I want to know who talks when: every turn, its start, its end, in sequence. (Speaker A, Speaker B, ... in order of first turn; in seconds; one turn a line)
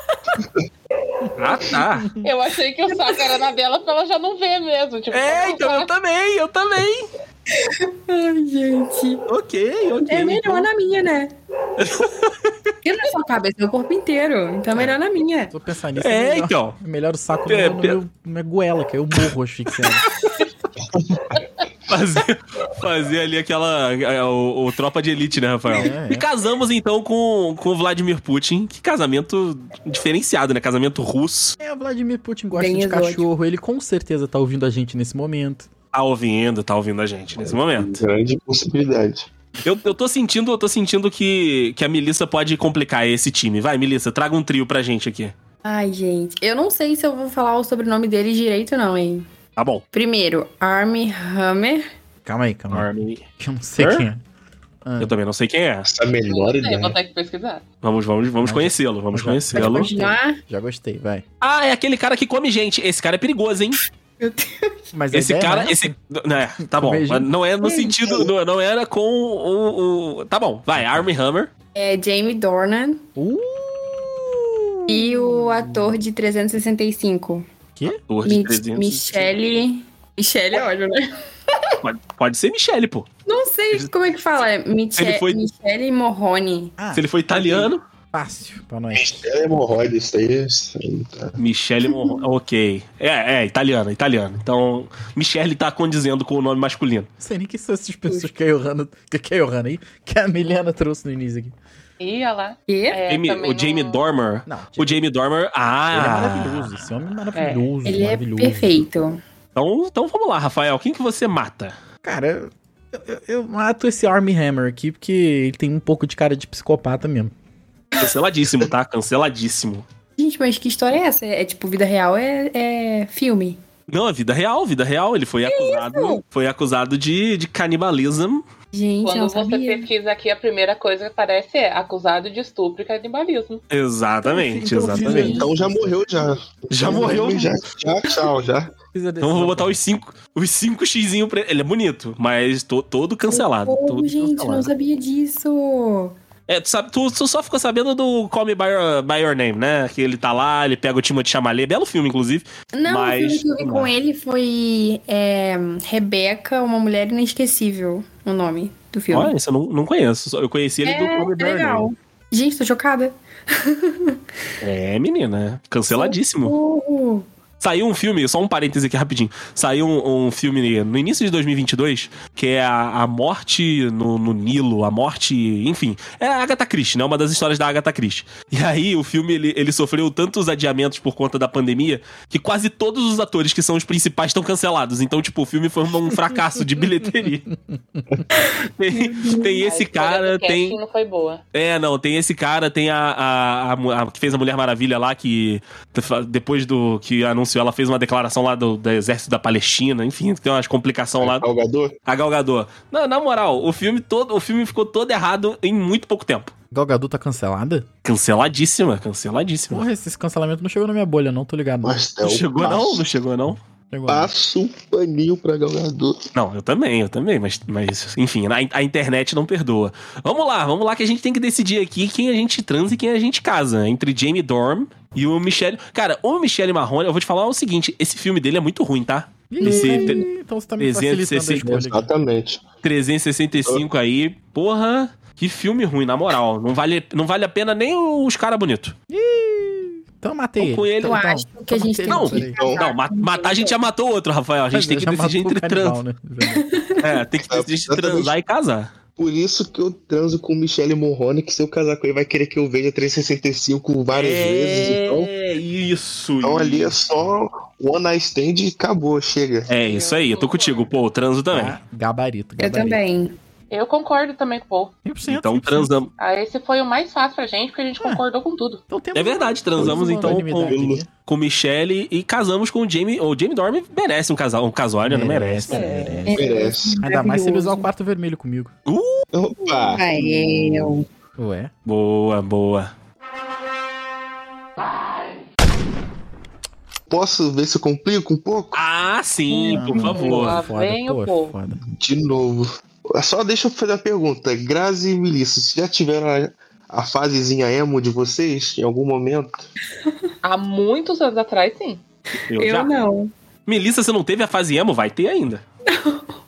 Speaker A: 1.4-2.1
Speaker B: 1.7-2.3
Speaker C: 2.2-5.9
Speaker D: 2.9-3.2
Speaker A: 5.1-7.1
Speaker D: 7.5-9.2
Speaker A: 9.3-10.7
Speaker D: 10.1-11.3
Speaker A: 11.8-12.7
Speaker D: 12.8-15.5
Speaker B: 15.5-20.1
Speaker A: 16.0-16.8
Speaker A: 17.5-18.0
Speaker A: 19.7-20.4
Speaker E: 20.9-21.4
Speaker A: 21.9-31.6
Speaker B: 25.7-26.2
Speaker B: 31.6-35.7
Speaker D: 32.5-33.3
Speaker A: 35.9-38.0
Speaker E: 37.5-39.3
Speaker A: 39.6-45.3
Speaker D: 45.6-49.2
Speaker A: 49.6-49.8
Speaker D: 49.9-51.8
Speaker B: 52.2-52.9
Speaker A: 52.7-53.2
Speaker B: 53.4-54.2
Speaker A: 53.8-54.0
Speaker B: 54.8-55.1
Speaker A: 55.0-55.9
Speaker E: 55.8-57.0
Speaker C: 56.2-57.6
Speaker A: 57.8-60.0
Speaker B: 58.4-61.2
Speaker D: 59.5-60.4
Speaker A: 61.4-63.8
Speaker D: 64.2-64.7
Speaker B: 64.9-65.9
Speaker A: 65.1-71.5
Speaker B: 66.6-67.3
Speaker D: 67.6-68.0
Speaker D: 71.7-73.0
Speaker B: 73.2-75.8
Speaker D: 74.9-77.4
Speaker A: 78.1-79.3
Speaker D: 78.2-81.0
Speaker A: 81.8-83.1
Speaker D: 83.3-86.8
Speaker A: 85.0-85.4
Speaker B: 86.8-87.0
Speaker A: 86.9-87.8
Speaker B: 88.1-89.2
Speaker E: 88.9-91.4
Speaker A: 91.4-97.1
Speaker B: 97.2-101.5
Speaker C: 102.0-104.0
Speaker D: 102.7-103.0
Speaker A: 103.1-106.7
Speaker B: 104.5-105.0
Speaker B: 105.9-108.7
Speaker C: 107.3-107.6
Speaker D: 107.8-109.2
Speaker A: 109.5-111.7
Speaker B: 112.0-117.3
Speaker A: 117.9-119.8
Speaker D: 120.2-123.6
Speaker A: 123.9-128.4
Speaker D: 125.4-126.2
Speaker D: 128.7-129.9
Speaker C: 129.0-133.6
Speaker A: 133.7-135.4
Speaker B: 134.4-136.0
Speaker D: 134.7-135.5
Speaker E: 135.3-138.7
Speaker A: 136.7-137.5
Speaker D: 136.9-137.2
Speaker B: 138.9-139.8
Speaker A: 139.2-144.7
Speaker D: 143.3-146.1
Speaker A: 146.5-153.9
Speaker D: 152.7-159.3
Speaker A: 159.1-161.8
Speaker D: 160.8-164.2
Speaker A: 164.6-166.5
Speaker D: 165.9-167.2
Speaker A: 167.6-187.5
Speaker A: 188.6-190.8
Speaker D: 189.0-189.6
Speaker C: 189.6-191.4
Speaker A: 191.5-201.4
Speaker E: 201.2-201.9
Speaker A: 202.1-206.5
Speaker B: 206.7-207.9
Speaker A: 208.0-209.9
Speaker B: 209.7-212.0
Speaker E: 211.8-213.0
Speaker A: 212.2-213.6
Speaker B: 213.9-214.3
Speaker E: 214.1-216.2
Speaker A: 216.3-230.2
Speaker B: 229.5-232.1
Speaker D: 229.7-230.2
Speaker A: 230.8-231.8
Speaker E: 231.7-232.6
Speaker A: 232.8-238.9
Speaker B: 239.1-242.6
Speaker A: 240.6-241.2
Speaker D: 241.0-243.8
Speaker A: 242.1-246.0
Speaker E: 242.4-242.8
Speaker B: 244.7-246.7
Speaker D: 246.4-247.1
Speaker A: 247.0-248.9
Speaker E: 247.5-248.3
Speaker E: 249.2-255.3
Speaker A: 254.1-256.9
Speaker E: 256.4-259.7
Speaker A: 259.7-261.7
Speaker C: 259.8-260.9
Speaker B: 261.5-263.0
Speaker D: 262.6-263.4
Speaker C: 263.7-264.9
Speaker B: 265.0-265.9
Speaker A: 265.2-266.1
Speaker C: 266.2-268.8
Speaker B: 268.9-271.1
Speaker A: 269.1-275.8
Speaker E: 269.8-271.0
Speaker B: 275.0-278.7
Speaker C: 275.7-276.4
Speaker D: 276.2-277.9
Speaker E: 276.3-277.0
Speaker A: 278.9-279.2
Speaker E: 279.3-280.9
Speaker D: 279.6-281.1
Speaker B: 281.4-281.7
Speaker A: 281.9-282.9
Speaker E: 287.1-288.8
Speaker A: 288.7-290.6
Speaker C: 289.5-291.6
Speaker B: 289.8-291.9
Speaker E: 292.0-299.6
Speaker C: 300.4-302.0
Speaker A: 302.5-302.9
Speaker D: 302.5-303.3
Speaker A: 303.6-305.6
Speaker D: 305.9-306.3